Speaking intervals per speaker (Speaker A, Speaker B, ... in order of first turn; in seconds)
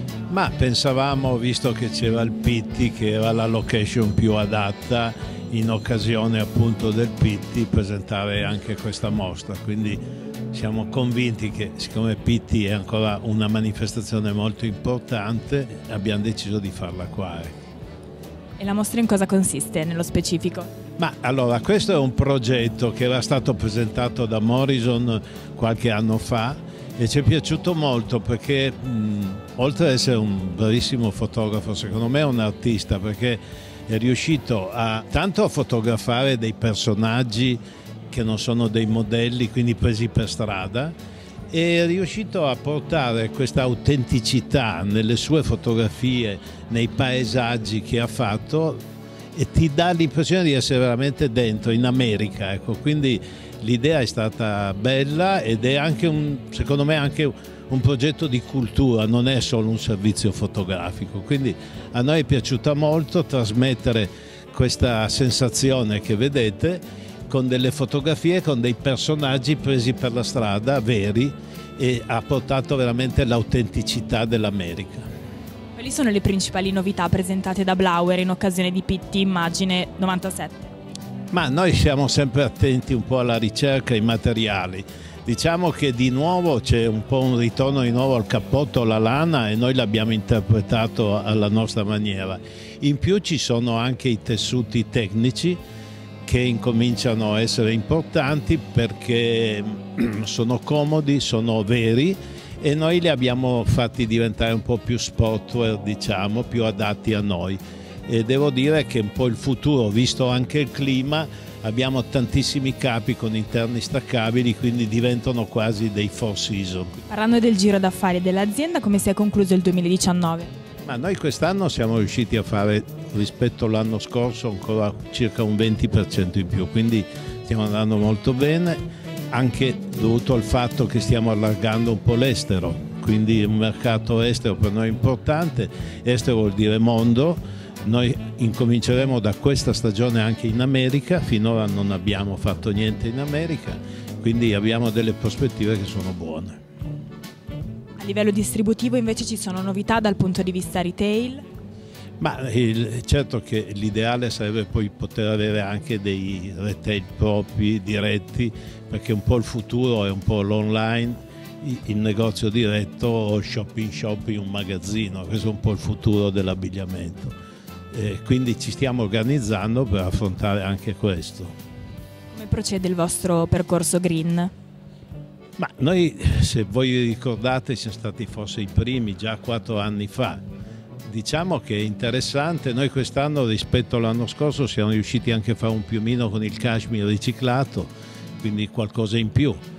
Speaker A: 0.3-17.5, 21.0-41.0, 41.5-48.8, 49.3-75.0, 81.3-95.6, 96.2-117.0, 120.8-128.8, 129.3-146.6, 152.2-167.3, 167.9-171.5, 175.6-180.4, 181.0-189.6
Speaker B: 18.6-20.7, 75.8-80.7, 117.1-120.5, 148.0-151.4, 172.3-174.5